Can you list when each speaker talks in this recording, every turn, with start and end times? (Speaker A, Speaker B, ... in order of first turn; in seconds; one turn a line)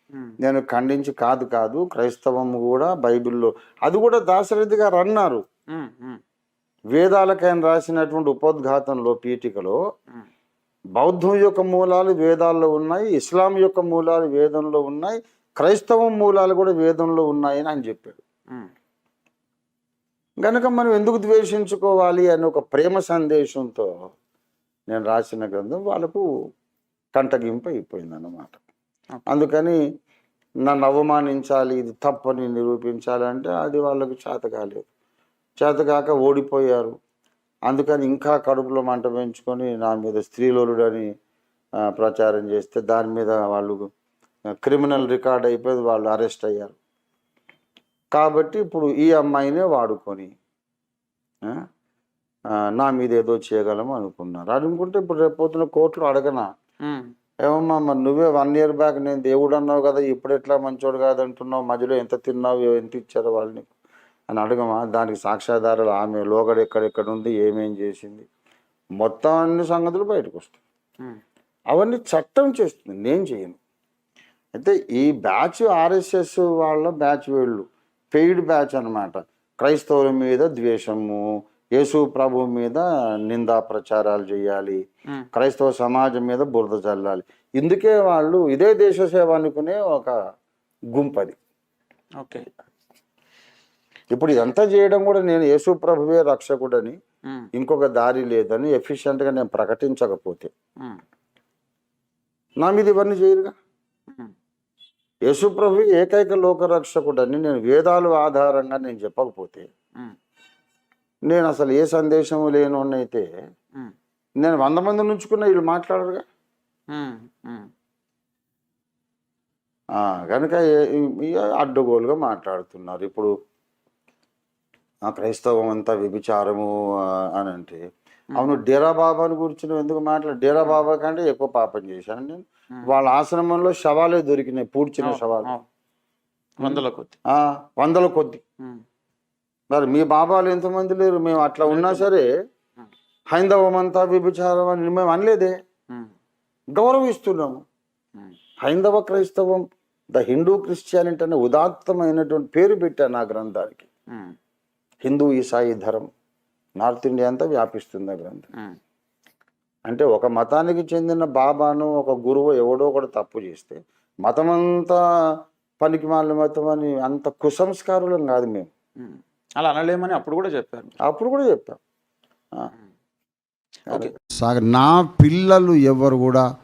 Speaker A: 0.4-5.4
Speaker B: 5.7-6.2
Speaker A: 6.9-9.8
Speaker A: 10.9-18.2
Speaker A: 20.4-23.9
Speaker A: 24.9-26.2
Speaker A: 27.1-28.6
Speaker A: 29.3-29.8
Speaker A: 30.6-34.9
Speaker A: 35.6-36.9
Speaker A: 37.7-41.1
Speaker A: 41.9-43.9
Speaker A: 44.6-46.8
Speaker A: 48.1-50.3
Speaker A: 52.6-56.5
Speaker B: 56.8-57.1
Speaker A: 57.4-63.7
Speaker A: 64.3-68.2
Speaker A: 69.0-70.6
Speaker A: 71.7-73.6
Speaker A: 74.5-81.2
Speaker A: 81.8-84.8
Speaker A: 85.3-90.1
Speaker A: 90.9-91.4
Speaker B: 92.2-92.5
Speaker A: 94.1-97.0
Speaker A: 97.5-100.5
Speaker A: 102.6-103.5
Speaker A: 105.3-109.7
Speaker A: 111.3-113.2
Speaker A: 114.4-116.2
Speaker B: 116.9-117.7
Speaker A: 120.0-123.3
Speaker A: 125.1-126.7
Speaker A: 127.4-127.8
Speaker A: 128.3-135.5
Speaker B: 135.0-135.6
Speaker B: 136.6-137.2
Speaker A: 137.3-138.4
Speaker A: 139.7-142.3
Speaker B: 141.6-142.1
Speaker A: 143.3-145.6
Speaker A: 146.7-147.6
Speaker A: 148.6-153.9
Speaker A: 155.0-156.1
Speaker A: 156.8-158.5
Speaker A: 159.9-165.0
Speaker A: 165.8-168.7
Speaker B: 169.0-170.9
Speaker A: 171.0-171.8
Speaker B: 173.9-174.1
Speaker A: 173.9-176.4